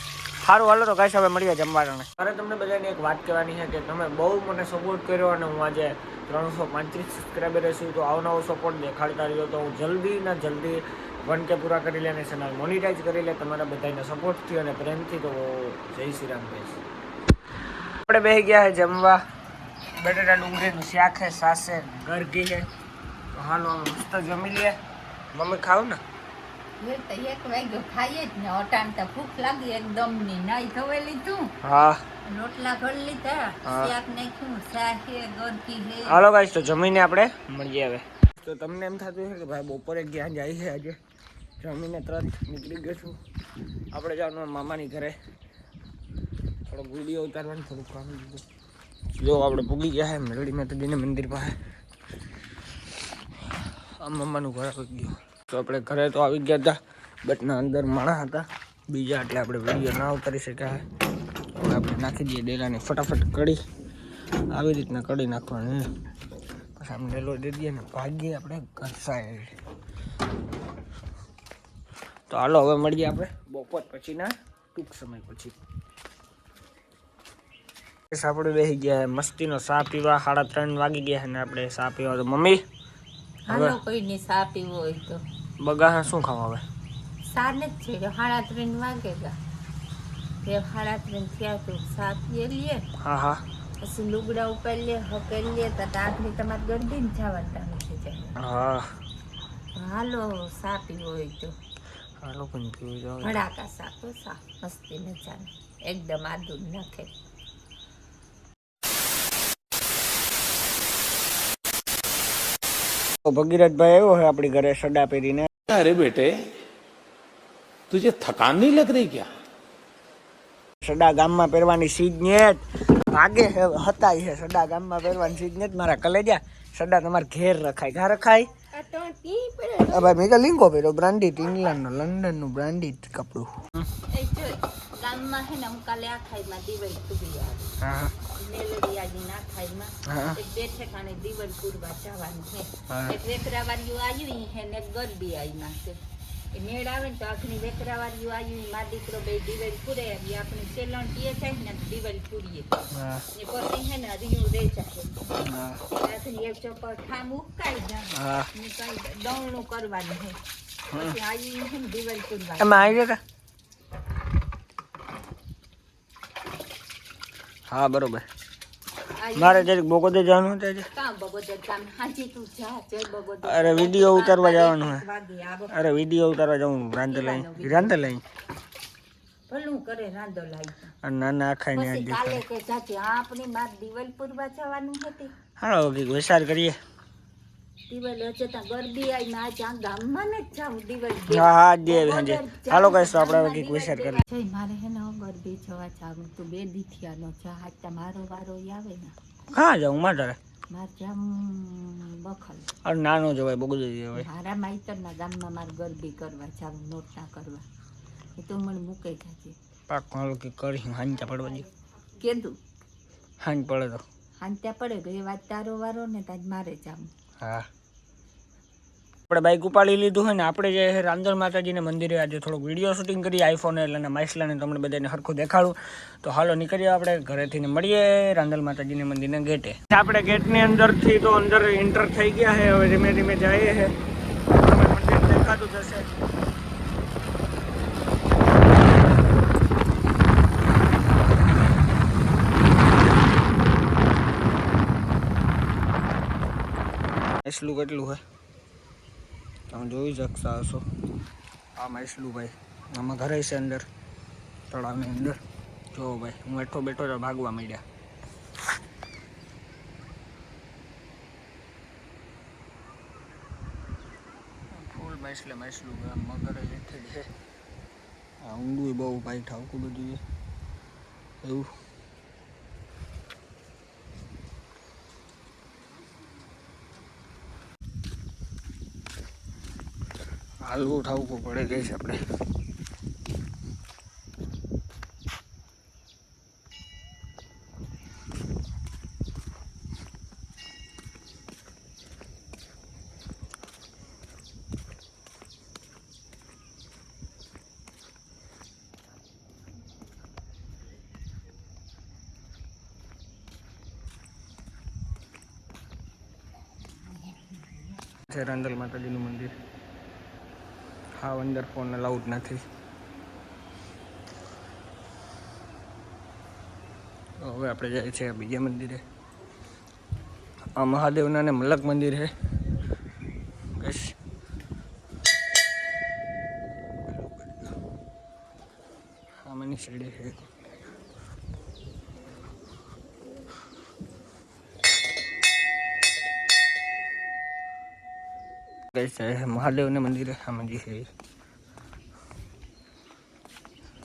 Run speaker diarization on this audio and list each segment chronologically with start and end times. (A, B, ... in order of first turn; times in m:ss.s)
0:00.4-0:16.8 A
0:18.1-0:19.2 A
0:20.0-0:22.7 A
0:23.3-0:24.8 A
0:25.3-0:26.0 A
0:26.8-0:31.5 B
0:31.6-0:32.0 A
0:32.2-0:36.2 B
0:33.6-0:33.9 A
0:36.1-0:41.0 A
0:41.6-0:43.2 A
0:43.9-0:45.2 A
0:46.6-0:48.4 A
0:49.1-0:51.6 A
0:54.0-1:00.8 A
1:01.6-1:03.6 A
1:04.5-1:05.9 A
1:06.8-1:09.5 A
1:12.3-1:15.5 A
1:18.1-1:22.6 A
1:23.5-1:25.2 B
1:23.5-1:23.8 A
1:25.6-1:26.6 A
1:27.3-1:29.4 B
1:30.4-1:32.9 B
1:33.0-1:33.4 A
1:33.8-1:38.4 B
1:38.4-1:38.9 A
1:39.8-1:41.6 B
1:42.2-1:43.4 A
1:43.2-1:47.1 B
1:53.2-1:55.5 A
1:55.7-1:56.4 C
1:57.9-1:59.3 C
2:00.8-2:08.5 A
2:08.7-2:10.2 B
2:09.9-2:13.9 A
2:14.1-2:17.7 B
2:17.8-2:18.1 A
2:18.3-2:26.0 B
2:20.1-2:20.4 A
2:22.9-2:23.1 A
2:26.5-2:32.7 B
2:32.9-2:33.2 A
2:33.3-2:35.3 B
2:35.4-2:35.8 A
2:35.9-2:40.4 B
2:38.1-2:38.5 A
2:40.9-2:43.0 B
2:42.6-2:43.2 A
2:47.7-2:48.2 A
2:49.1-2:49.7 B
2:49.4-2:50.9 A
2:50.9-2:55.7 B
2:53.4-2:55.0 A
2:55.7-2:58.2 A
2:57.1-2:58.0 B
2:59.5-3:00.9 B
3:01.0-3:02.4 A
3:01.7-3:05.3 B
3:05.6-3:06.8 A
3:07.9-3:19.1 B
3:11.3-3:14.2 A
3:19.5-3:20.4 A
3:20.7-3:22.7 B
3:22.8-3:24.2 A
3:24.2-3:27.6 B
3:28.4-3:29.5 B
3:29.9-3:31.6 A
3:32.2-3:32.6 B
3:33.4-3:34.0 A
3:34.4-3:37.1 B
3:37.4-3:37.6 A
3:39.3-3:53.9 A
3:54.5-3:56.1 A
4:07.4-4:08.2 A
4:09.7-4:10.8 A
4:11.8-4:13.8 A
4:14.7-4:15.4 A
4:15.9-4:17.8 A
4:24.7-4:27.3 A
4:28.4-4:30.2 A
4:31.4-4:31.7 A
4:40.6-4:42.2 A
5:08.3-5:09.5 A
5:11.1-5:12.6 A
5:17.4-5:19.0 A
5:20.8-5:22.3 A
5:23.8-5:24.2 A
5:27.1-5:27.7 A
5:29.4-5:30.4 A
5:38.9-5:41.1 A